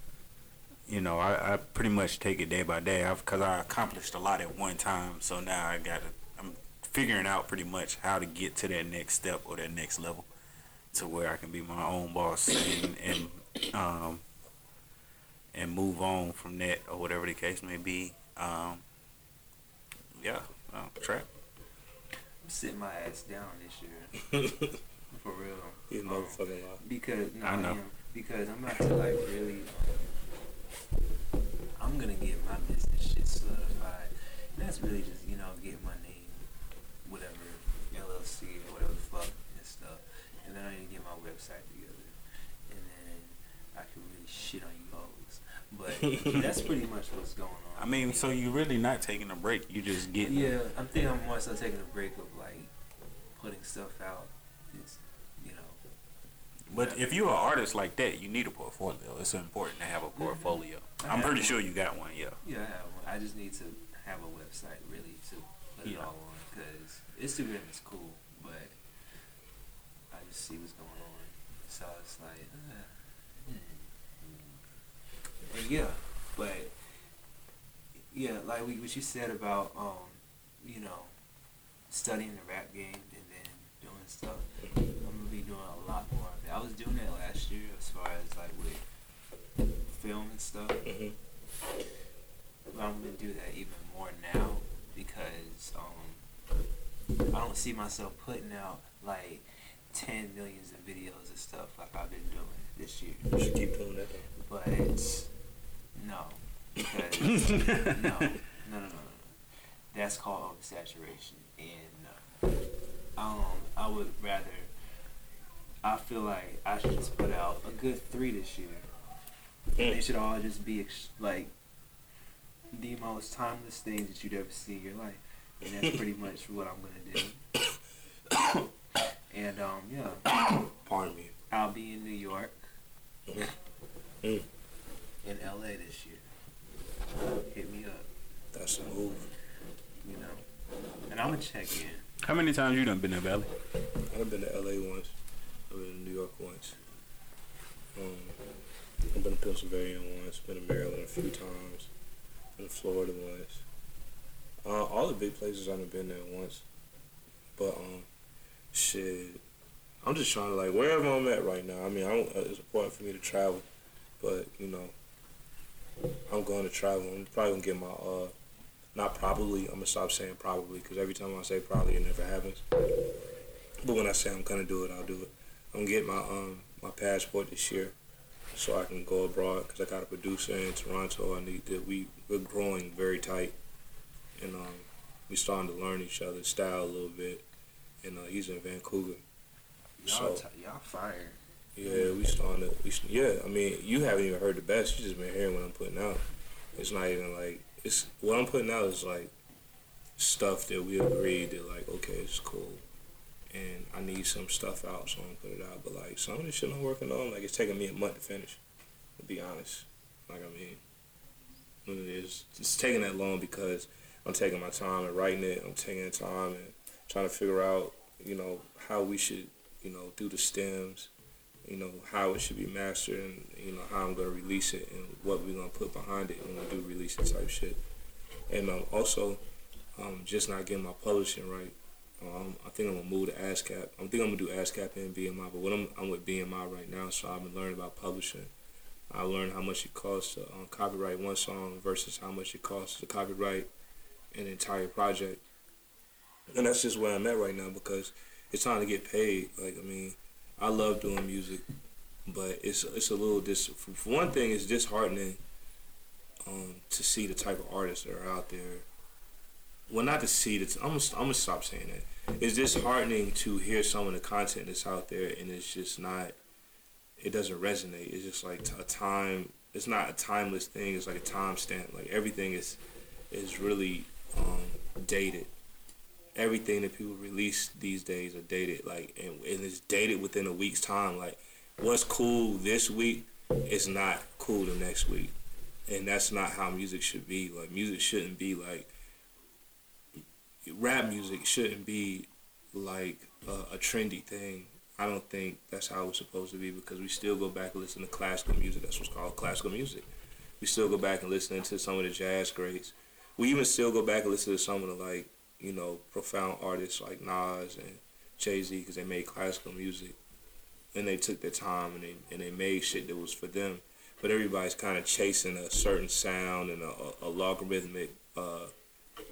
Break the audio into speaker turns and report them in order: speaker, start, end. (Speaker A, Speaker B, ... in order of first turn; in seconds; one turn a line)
Speaker A: 0.9-10.3
Speaker A: 10.9-14.2
Speaker A: 15.5-18.8
Speaker A: 20.2-21.3
Speaker B: 22.4-24.2
Speaker C: 24.3-24.7
Speaker B: 25.1-30.1
Speaker C: 25.9-26.8
Speaker A: 27.4-27.8
Speaker B: 31.8-36.5
Speaker B: 37.0-42.2
Speaker B: 42.7-48.3
Speaker C: 46.0-46.5
Speaker A: 47.8-50.5
Speaker B: 50.2-52.7
Speaker B: 53.3-55.8
Speaker A: 56.7-62.4
Speaker B: 56.7-57.1
Speaker B: 60.1-61.6
Speaker B: 62.4-68.8
Speaker B: 70.1-74.6
Speaker B: 75.4-76.7
Speaker B: 78.1-81.1
Speaker B: 81.9-88.8
Speaker B: 89.9-90.8
Speaker C: 90.8-91.2
Speaker B: 92.7-96.2
Speaker B: 97.3-103.3
Speaker C: 103.3-104.3
Speaker B: 104.4-105.3
Speaker B: 105.9-109.4
Speaker A: 107.5-108.1
Speaker B: 109.9-112.3
Speaker B: 113.2-114.7
Speaker B: 115.8-118.9
Speaker C: 119.8-120.0
Speaker B: 119.8-121.5
Speaker B: 122.7-127.4
Speaker B: 129.3-130.3
Speaker C: 130.3-131.3
Speaker B: 131.5-132.6
Speaker C: 133.3-133.5
Speaker C: 134.2-134.5
Speaker B: 135.2-136.2
Speaker B: 137.2-138.1
Speaker C: 138.5-139.3
Speaker B: 140.0-140.4
Speaker B: 141.1-142.1
Speaker A: 142.2-143.5
Speaker C: 144.1-145.1
Speaker C: 145.7-146.8
Speaker C: 147.9-148.4
Speaker C: 149.1-151.9
Speaker C: 152.6-153.6
Speaker C: 154.6-156.6
Speaker C: 157.6-158.1
Speaker C: 158.7-159.4
Speaker C: 160.0-163.6
Speaker C: 164.2-164.9
Speaker C: 166.3-168.3
Speaker C: 168.9-172.6
Speaker C: 173.8-177.9
Speaker C: 178.5-183.5
Speaker C: 184.4-187.4
Speaker C: 188.0-189.2
Speaker B: 190.0-192.1
Speaker C: 190.1-190.4
Speaker C: 191.8-196.2
Speaker C: 196.8-199.3
Speaker C: 200.2-202.8
Speaker C: 203.5-208.6
Speaker C: 209.2-210.8
Speaker C: 211.8-221.1
Speaker C: 221.6-227.8
Speaker C: 228.5-229.4
Speaker C: 229.9-238.5
Speaker C: 239.1-243.7
Speaker C: 244.3-245.4
Speaker C: 246.5-251.6
Speaker C: 252.3-255.4
Speaker C: 256.4-258.9
Speaker C: 259.9-266.4
Speaker C: 267.2-275.5
Speaker C: 276.3-285.3
Speaker C: 285.9-288.9
Speaker C: 290.6-300.0
Speaker C: 300.6-310.2
Speaker C: 310.9-318.7